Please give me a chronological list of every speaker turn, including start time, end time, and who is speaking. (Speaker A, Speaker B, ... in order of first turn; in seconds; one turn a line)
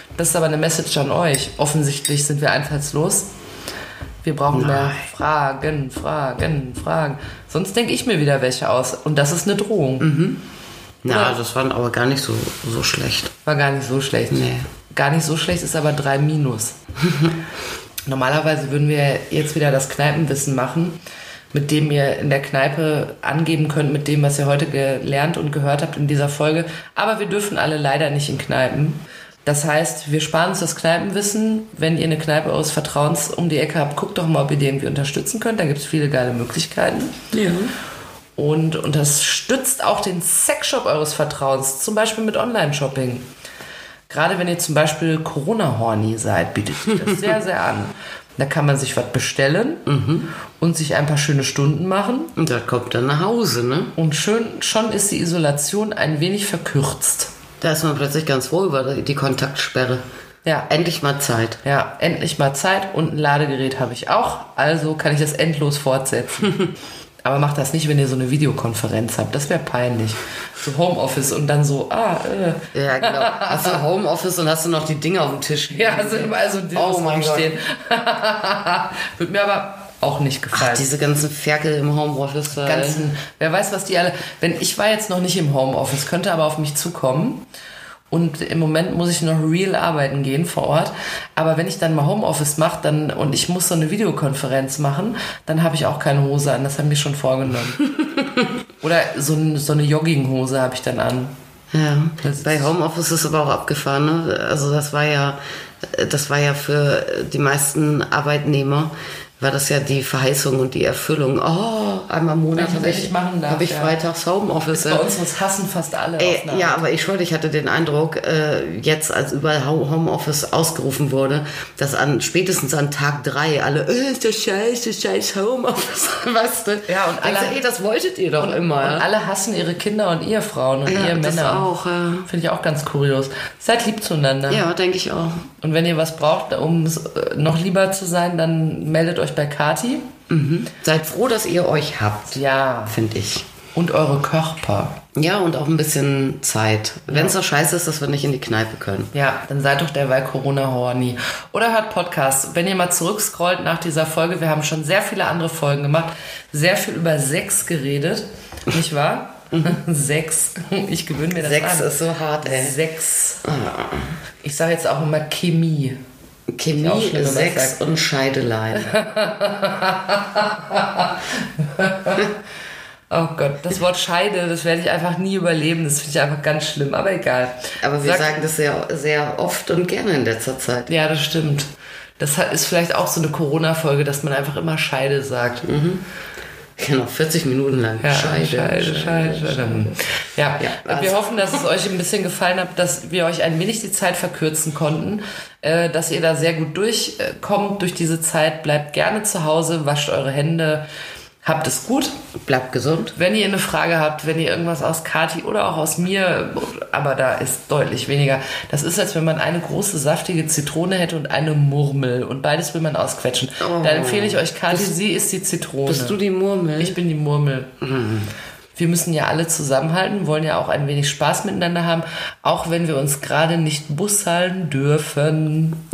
Speaker A: 0.2-3.3
Speaker A: 4.2-10.1
Speaker B: 4.5-5.0
Speaker B: 10.0-10.4
Speaker B: 11.0-13.3
Speaker A: 11.1-11.3
Speaker A: 13.4-16.7
Speaker B: 14.3-14.6
Speaker A: 18.1-21.0
Speaker A: 21.5-37.3
Speaker B: 37.3-37.7
Speaker A: 38.4-43.2
Speaker A: 44.1-49.9
Speaker B: 49.9-50.3
Speaker A: 50.6-52.3
Speaker B: 52.4-53.9
Speaker A: 54.0-57.3
Speaker B: 57.6-60.0
Speaker A: 60.4-60.7
Speaker B: 60.7-61.6
Speaker A: 61.6-66.7
Speaker A: 67.2-73.8
Speaker B: 72.7-77.5
Speaker A: 75.7-80.9
Speaker B: 80.5-83.0
Speaker A: 82.6-87.5
Speaker A: 88.1-97.9
Speaker A: 98.8-101.3
Speaker B: 101.7-115.0
Speaker A: 102.2-102.7
Speaker A: 112.5-113.9
Speaker A: 114.7-116.8
Speaker B: 116.2-129.1
Speaker A: 126.9-127.6
Speaker A: 128.4-131.7
Speaker B: 130.8-132.3
Speaker A: 132.2-134.6
Speaker B: 134.5-135.4
Speaker A: 135.6-140.1
Speaker B: 140.3-143.4
Speaker A: 142.3-143.0
Speaker A: 143.7-145.0
Speaker B: 145.1-149.1
Speaker A: 147.1-147.3
Speaker A: 149.1-161.9
Speaker B: 161.3-162.8
Speaker A: 162.4-163.4
Speaker B: 163.4-164.1
Speaker A: 164.4-166.0
Speaker B: 166.5-169.0
Speaker A: 166.7-167.8
Speaker A: 168.8-172.3
Speaker A: 173.1-178.3
Speaker B: 177.8-180.9
Speaker A: 180.9-185.7
Speaker B: 185.6-186.0
Speaker B: 186.8-189.9
Speaker A: 188.0-200.8
Speaker B: 190.6-191.6
Speaker A: 201.4-202.1
Speaker B: 202.4-203.1
Speaker A: 203.1-216.2
Speaker B: 213.6-214.9
Speaker B: 215.8-217.0
Speaker A: 216.8-217.7
Speaker B: 217.8-218.3
Speaker A: 218.8-225.8